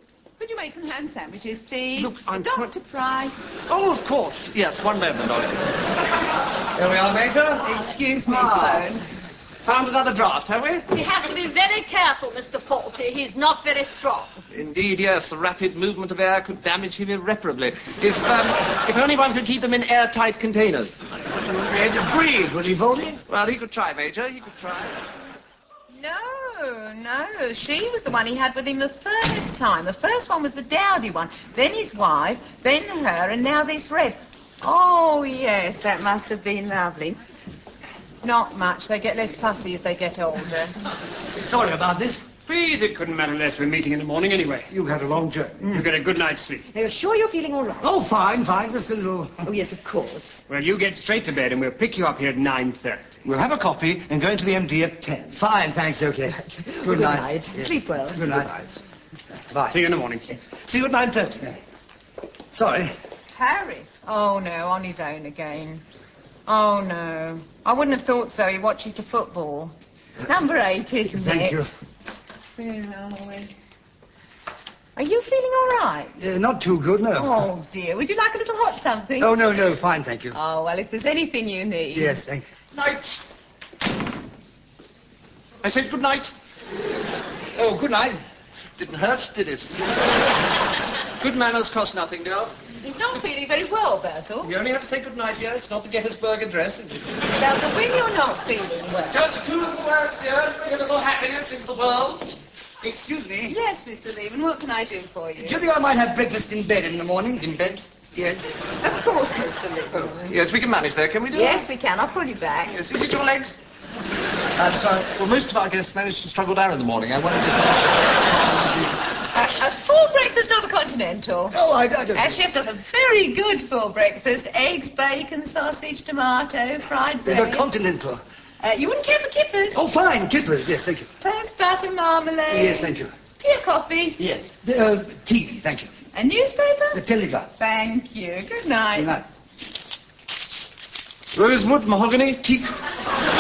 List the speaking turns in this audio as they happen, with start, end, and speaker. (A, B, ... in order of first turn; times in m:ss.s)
0:00.4-0:03.3 A
0:02.0-0:02.7 B
0:03.7-0:07.7 B
0:07.6-0:09.0 A
0:08.3-0:08.9 B
0:09.6-0:10.9 B
0:10.9-0:14.4 C
0:14.5-0:21.0 B
0:21.5-0:23.2 D
0:23.3-0:25.0 B
0:25.9-0:37.2 A
0:38.2-0:40.8 A
0:41.4-0:42.2 D
0:42.5-0:44.7 E
0:44.7-0:45.9 D
0:45.7-0:46.7 E
0:46.7-0:47.8 F
0:47.8-0:49.5 D
0:49.5-0:50.4 F
0:50.5-0:53.1 E
0:53.3-0:58.8 D
0:57.1-0:57.7 F
0:57.6-0:58.2 A
0:59.5-0:59.8 D
0:59.7-1:01.2 E
1:00.7-1:01.6 D
1:02.5-1:02.9 D
1:03.3-1:05.8 A
1:06.5-1:09.7 A
1:10.3-1:11.7 A
1:11.1-1:11.7 D
1:12.6-1:13.5 A
1:15.0-1:16.1 A
1:16.2-1:17.5 D
1:17.2-1:19.5 A
1:19.2-1:20.4 D
1:20.3-1:22.2 A
1:21.9-1:22.5 D
1:22.7-1:23.2 B
1:25.6-1:26.3 B
1:27.6-1:28.2 B
1:28.8-1:30.1 B
1:31.2-1:32.5 B
1:32.8-1:34.5 A
1:34.4-1:37.1 B
1:37.4-1:39.2 A
1:39.1-1:42.3 B
1:42.8-1:43.6 D
1:43.4-1:45.7 A
1:45.4-1:48.4 D
1:48.8-1:50.4 A
1:50.0-1:51.7 B
1:51.3-1:52.8 A
1:52.7-1:53.6 B
1:54.6-1:55.1 D
1:55.1-1:58.9 B
1:59.3-2:01.6 A
2:01.5-2:02.4 D
2:02.2-2:07.7 A
2:07.2-2:08.2 D
2:08.6-2:09.8 A
2:09.8-2:11.1 D
2:11.2-2:14.2 A
2:12.5-2:13.1 D
2:14.2-2:15.9 D
2:16.1-2:17.0 A
2:16.9-2:17.5 D
2:17.6-2:19.2 A
2:19.0-2:19.3 D
2:21.3-2:22.6 B